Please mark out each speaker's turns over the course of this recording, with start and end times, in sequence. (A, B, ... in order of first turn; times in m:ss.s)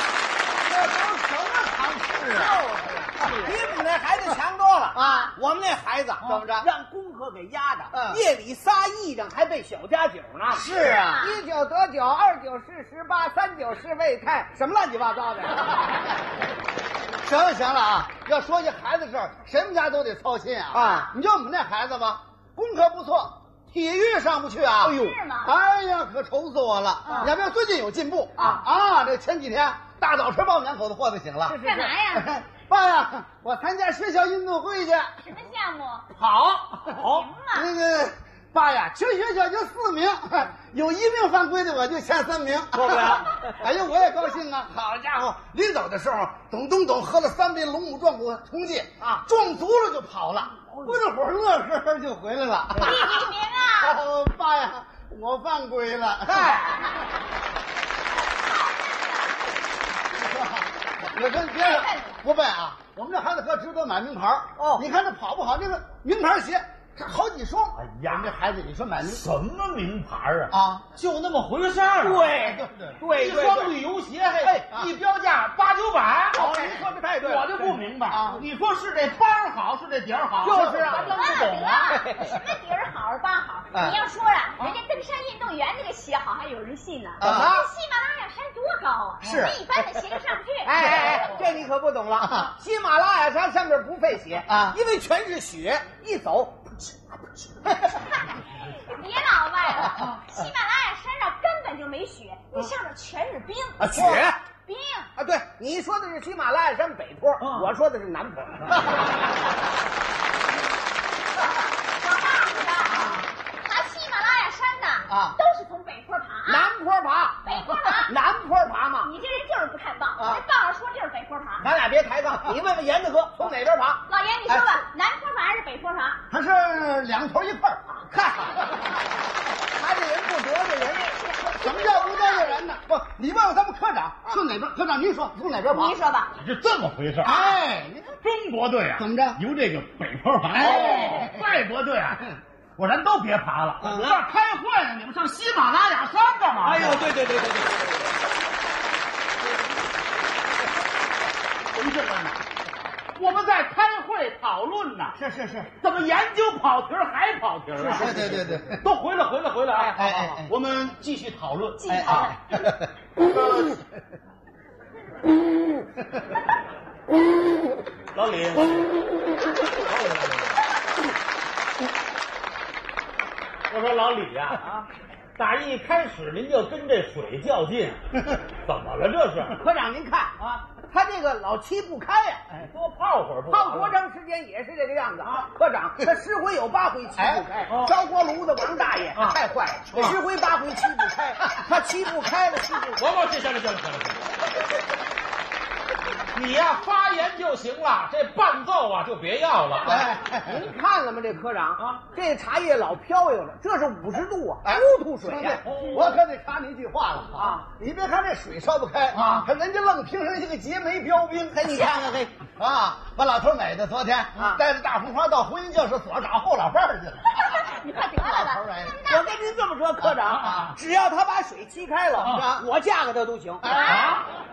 0:00.7-0:02.6 A
0:02.2-0:15.9 B
0:05.0-0:05.3 A
0:05.0-0:05.3 C
0:06.2-0:06.7 A
0:07.9-0:08.2 A
0:10.5-0:11.3 A
0:10.7-0:11.4 C
0:17.2-0:31.6 A
0:20.7-0:21.1 B
0:24.8-0:25.2 B
0:24.9-0:25.5 C
0:27.1-0:27.3 B
0:31.5-0:31.9 B
0:31.6-0:32.4 C
0:32.1-0:35.1 A
0:35.2-0:36.1 C
0:36.2-0:37.2 D
0:36.6-0:53.1 A
0:37.0-0:37.7 C
0:42.7-0:43.7 B
0:52.8-0:54.0 C
0:53.8-0:56.6 A
0:56.3-0:56.8 B
0:58.2-0:59.4 C
1:00.2-1:09.2 A
1:01.5-1:02.2 C
1:04.6-1:04.9 B
1:07.8-1:08.4 D
1:09.0-1:12.3 D
1:10.5-1:10.9 A
1:12.0-1:13.8 B
1:12.4-1:13.0 A
1:13.1-1:22.0 D
1:16.3-1:18.4 B
1:20.4-1:21.2 B
1:20.9-1:30.7 C
1:21.9-1:22.3 B
1:27.2-1:27.5 A
1:27.2-1:27.7 B
1:29.2-1:29.5 A
1:30.6-1:37.8 B
1:31.0-1:31.2 D
1:34.5-1:34.8 A
1:38.7-1:44.1 C
1:43.8-1:44.4 B
1:43.9-1:44.2 A
1:44.7-1:45.1 C
1:45.2-1:48.9 B
1:47.4-1:47.7 D
1:51.9-1:56.7 C
1:56.5-1:59.1 B
1:57.4-1:58.1 C
1:59.0-2:01.7 C
2:00.2-2:00.4 B
2:01.6-2:04.0 B
2:04.1-2:06.2 C
2:06.3-2:08.0 A
2:08.1-2:08.6 B
2:09.7-2:11.1 B
2:10.8-2:12.7 C
2:11.6-2:16.0 A
2:15.7-2:16.3 C
2:16.4-2:17.4 D
2:17.2-2:18.2 A
2:17.3-2:17.6 C
2:18.2-2:27.1 D
2:19.0-2:19.4 A
2:20.6-2:21.3 C
2:20.6-2:21.3 A
2:26.7-2:27.9 B
2:31.7-2:32.4 D
2:33.2-2:35.2 D
2:35.2-2:35.7 A
2:35.8-2:42.4 D
2:37.8-2:38.8 A
2:37.9-2:38.6 B
2:40.0-2:40.5 A
2:41.8-2:42.4 C
2:41.9-2:42.8 A
2:43.2-2:43.8 D
2:48.1-2:48.9 D
2:49.8-2:50.5 D
2:53.7-2:54.6 D
2:55.4-2:58.0 D
2:58.6-2:59.6 D
2:59.6-3:02.4 B
3:02.5-3:04.0 D
3:03.5-3:13.0 B
3:05.2-3:05.5 D
3:07.7-3:08.0 D
3:09.2-3:09.4 D
3:09.9-3:10.2 D
3:13.0-3:14.3 D
3:16.3-3:20.1 D
3:19.8-3:20.6 A
3:20.0-3:25.6 B
3:21.8-3:22.0 D
3:24.7-3:32.0 A
3:25.6-3:26.2 D
3:27.3-3:27.7 B
3:29.2-3:29.4 D
3:31.5-3:32.3 B
3:32.5-3:37.4 A
3:34.4-3:34.6 B
3:37.3-3:39.5 C
3:38.1-3:39.0 A
3:39.1-3:44.0 B
3:40.3-3:40.8 D
3:42.2-3:42.4 D
3:43.6-3:44.2 A
3:43.7-3:44.2 C
3:43.7-3:44.2 D